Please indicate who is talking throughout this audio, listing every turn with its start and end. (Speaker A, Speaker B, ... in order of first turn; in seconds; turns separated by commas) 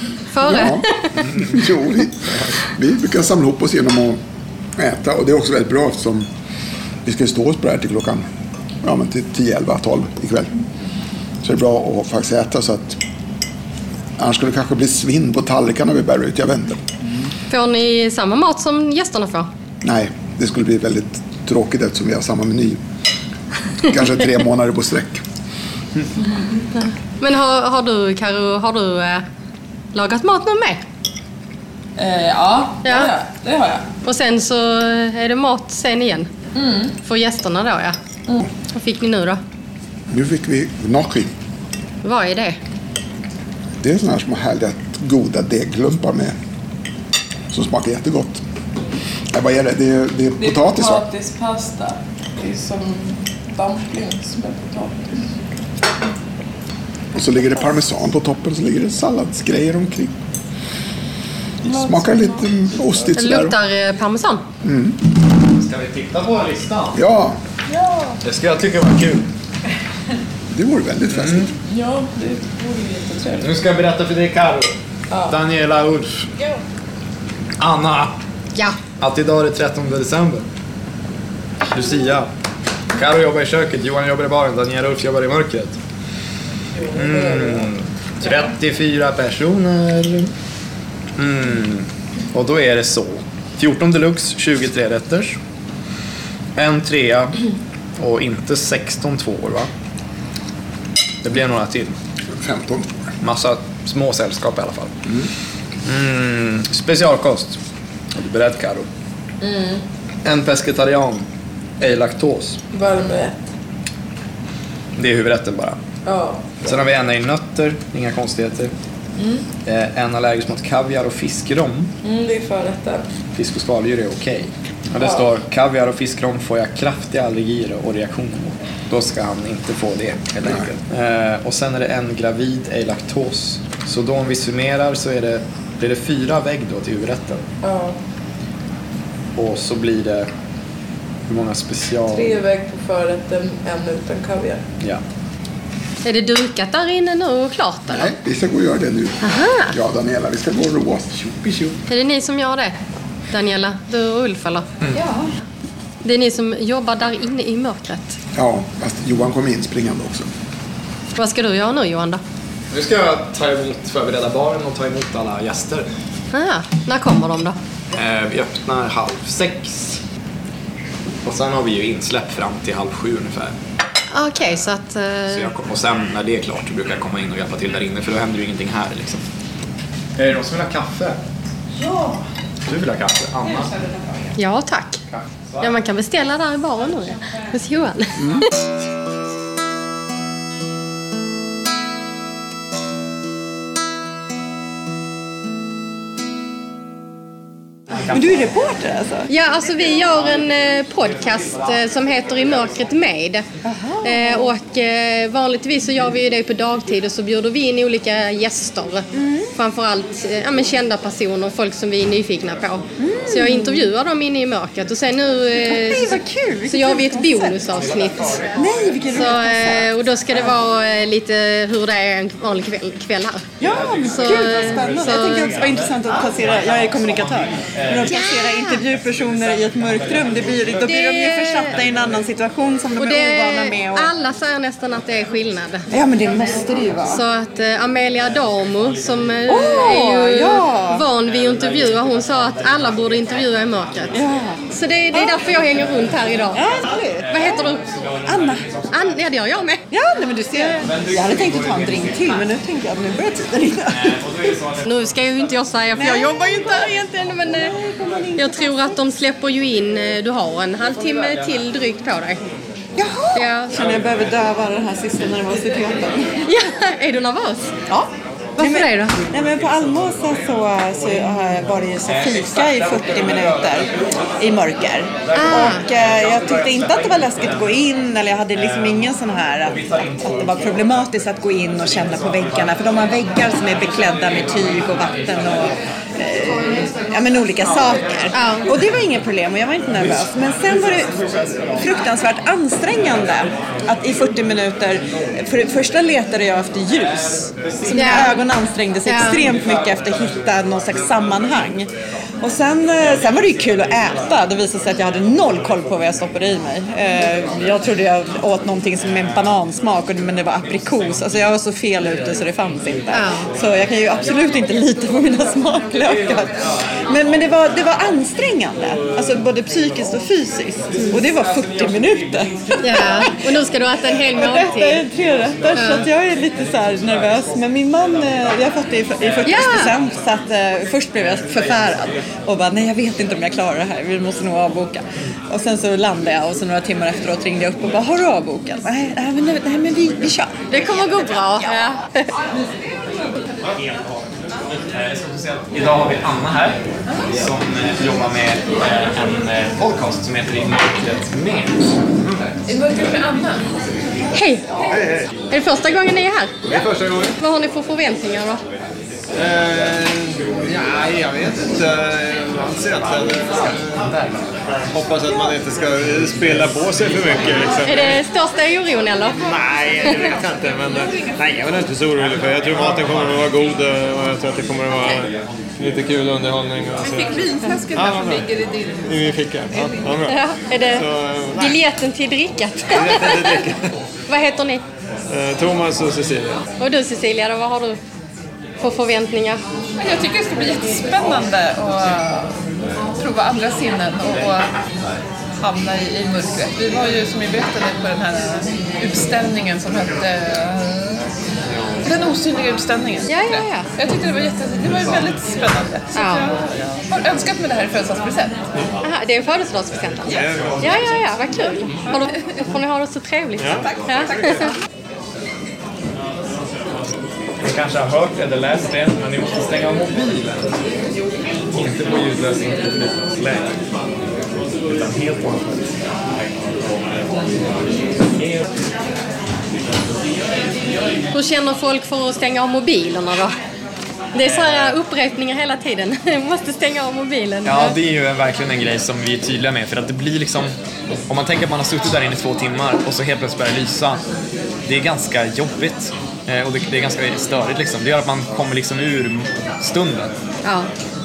Speaker A: 0.3-1.2, Speaker B: 0.4-4.2, Speaker B: 4.8-6.3, Speaker B: 7.0-8.2, Speaker B: 8.8-10.5, Speaker B: 11.4-13.0, Speaker B: 14.2-16.8, Speaker A: 17.5-19.5, Speaker B: 19.8-22.8, Speaker B: 23.8-25.2, Speaker A: 27.2-29.2, Speaker A: 29.9-30.8, Speaker C: 32.0-33.9, Speaker A: 32.8-33.1, Speaker A: 34.0-36.3, Speaker C: 36.5-36.9, Speaker A: 37.0-38.0, Speaker A: 38.7-39.4, Speaker B: 40.1-41.3, Speaker A: 42.0-42.6, Speaker B: 43.8-46.4, Speaker B: 47.5-48.4, Speaker B: 49.3-51.0, Speaker C: 50.4-55.3, Speaker B: 57.1-60.1, Speaker B: 61.6-63.6, Speaker C: 61.6-62.5, Speaker A: 63.1-64.5, Speaker B: 64.6-65.0, Speaker D: 65.5-67.0, Speaker B: 66.9-67.4, Speaker C: 67.7-68.2, Speaker D: 68.2-69.2, Speaker B: 70.5-71.5, Speaker D: 71.1-71.5, Speaker C: 71.7-73.5, Speaker D: 73.4-74.7, Speaker C: 75.1-75.3, Speaker D: 75.3-76.3, Speaker D: 77.6-78.1, Speaker D: 79.0-80.5, Speaker D: 81.6-82.3, Speaker D: 82.9-85.8, Speaker D: 86.9-90.3, Speaker D: 91.2-95.4, Speaker D: 96.5-97.4, Speaker D: 98.0-99.7, Speaker D: 101.2-102.0, Speaker B: 102.2-103.1, Speaker D: 103.2-105.0, Speaker D: 105.8-107.6, Speaker D: 108.1-108.9, Speaker C: 109.4-109.8, Speaker D: 110.2-111.2, Speaker D: 111.8-112.6, Speaker C: 112.7-113.4, Speaker D: 115.0-115.8, Speaker C: 116.0-116.6, Speaker D: 116.6-118.7, Speaker C: 119.2-119.4, Speaker D: 119.6-121.9, Speaker C: 122.0-123.0, Speaker D: 123.3-137.4, Speaker C: 137.6-138.0, Speaker D: 139.3-140.3, Speaker D: 141.2-142.4, Speaker C: 142.1-144.6, Speaker A: 146.0-148.1, Speaker B: 147.9-151.8, Speaker A: 149.2-149.7, Speaker A: 151.9-152.8, Speaker A: 153.3-154.7, Speaker C: 154.9-155.3, Speaker A: 156.0-158.2, Speaker B: 158.3-160.3, Speaker A: 161.1-162.2, Speaker D: 162.7-165.9, Speaker A: 166.3-167.6, Speaker D: 167.9-170.0, Speaker D: 171.2-173.6, Speaker A: 174.1-175.5, Speaker D: 175.3-179.2, Speaker D: 180.2-181.2, Speaker C: 181.8-182.2, Speaker D: 182.6-183.7, Speaker C: 183.4-184.3, Speaker A: 184.4-185.0, Speaker D: 185.1-185.7, Speaker A: 185.6-188.4, Speaker C: 186.8-187.5, Speaker E: 198.1-199.3, Speaker A: 199.3-203.4, Speaker E: 203.6-204.5, Speaker A: 204.0-218.6, Speaker E: 209.1-209.5, Speaker E: 213.0-213.9, Speaker E: 215.6-217.6, Speaker E: 218.5-219.9, Speaker A: 219.1-223.4, Speaker E: 223.6-234.1, Speaker A: 224.1-225.5, Speaker A: 228.1-228.8, Speaker A: 230.8-231.7, Speaker A: 233.0-235.8, Speaker E: 235.9-237.2, Speaker A: 237.1-244.1, Speaker E: 239.5-241.0, Speaker E: 244.1-244.6, Speaker A: 244.7-246.6, Speaker E: 246.5-247.3, Speaker A: 247.3-247.8, Speaker E: 248.2-248.7, Speaker A: 248.9-249.8, Speaker E: 249.9-254.2, Speaker A: 254.8-257.7, Speaker E: 256.0-257.0, Speaker E: 257.7-258.7, Speaker A: 258.3-262.4, Speaker E: 262.9-266.3, Speaker A: 263.3-263.7, Speaker A: 266.4-267.7, Speaker E: 267.9-273.9, Speaker A: 268.6-269.1, Speaker E: 274.4-301.9, Speaker A: 275.3-275.8, Speaker A: 288.3-288.8, Speaker A: 297.9-298.4, Speaker A: 299.1-299.4, Speaker E: 302.4-316.5, Speaker A: 313.1-313.5, Speaker E: 317.1-323.3, Speaker A: 322.8-325.1, Speaker E: 324.4-340.5, Speaker A: 325.8-326.1, Speaker A: 329.4-329.9, Speaker A: 340.7-342.2, Speaker D: 343.8-344.3, Speaker D: 344.9-346.8, Speaker D: 347.3-352.3, Speaker C: 352.7-353.6, Speaker A: 354.3-354.6, Speaker F: 354.8-355.3, Speaker A: 355.5-356.6, Speaker F: 356.6-357.3, Speaker A: 357.4-358.6, Speaker F: 359.3-368.2, Speaker A: 367.8-369.4, Speaker F: 369.4-378.5, Speaker C: 377.0-379.0, Speaker F: 379.0-381.8, Speaker C: 379.7-380.1, Speaker A: 380.2-383.6, Speaker F: 382.9-383.9, Speaker A: 384.3-384.8, Speaker F: 385.3-386.6, Speaker A: 386.8-388.0, Speaker A: 388.8-389.6, Speaker C: 390.0-392.6, Speaker C: 393.1-394.7, Speaker C: 395.6-401.2, Speaker C: 402.0-408.6, Speaker A: 403.3-403.9, Speaker A: 406.1-406.4, Speaker A: 409.0-414.7, Speaker F: 410.2-410.8, Speaker F: 413.6-413.9, Speaker D: 417.6-420.7, Speaker D: 421.7-423.7, Speaker D: 424.8-426.0, Speaker A: 431.3-433.5, Speaker A: 434.3-438.0, Speaker D: 437.6-440.7, Speaker D: 441.3-444.2, Speaker D: 444.8-450.3, Speaker A: 450.6-450.9